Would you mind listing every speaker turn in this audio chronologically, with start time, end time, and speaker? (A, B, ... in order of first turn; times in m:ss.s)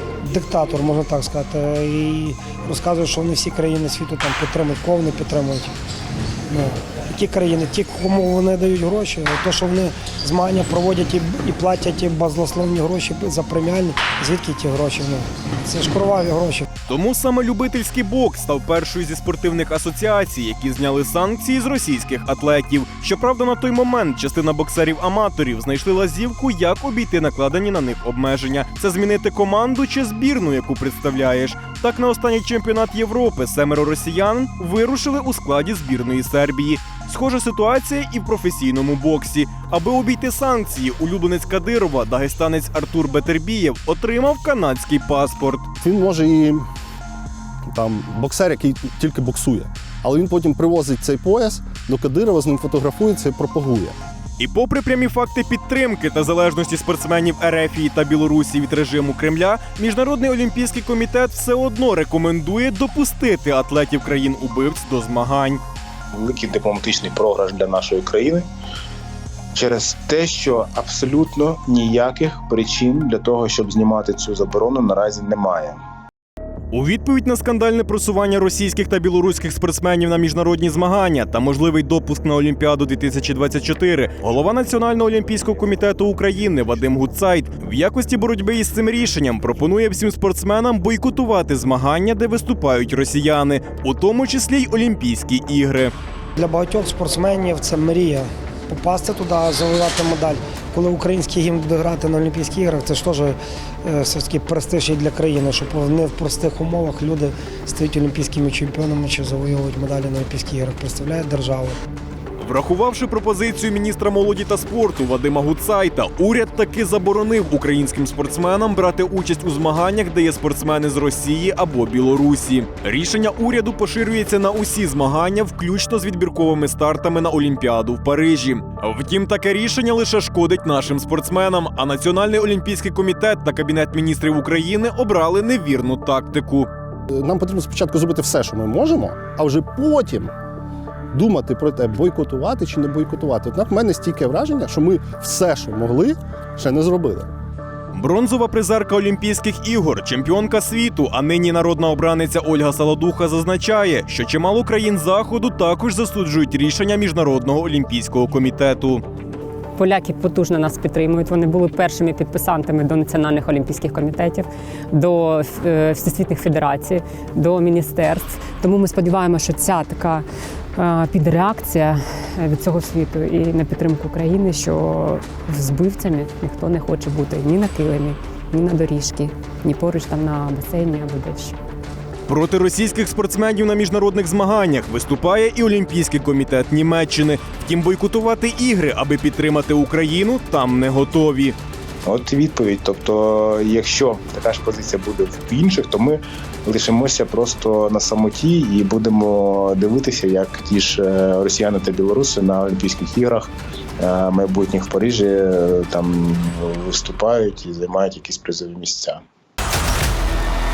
0:00.3-0:05.7 A
0:06.5-0:16.6 A
0:16.9-0:45.7 B
0:45.8-0:46.6 C
0:47.7-0:54.0 C
0:54.4-1:05.6 B
1:06.1-1:08.5 D
1:09.6-1:15.8 D
1:16.7-1:35.9 B
1:36.4-1:51.8 A
1:52.4-2:16.7 B
2:17.1-2:20.3 C
2:21.1-2:27.3 C
2:27.9-2:39.0 B
2:39.8-2:50.2 E
2:50.8-3:01.6 E
3:02.3-3:11.6 B
3:12.1-3:29.2 D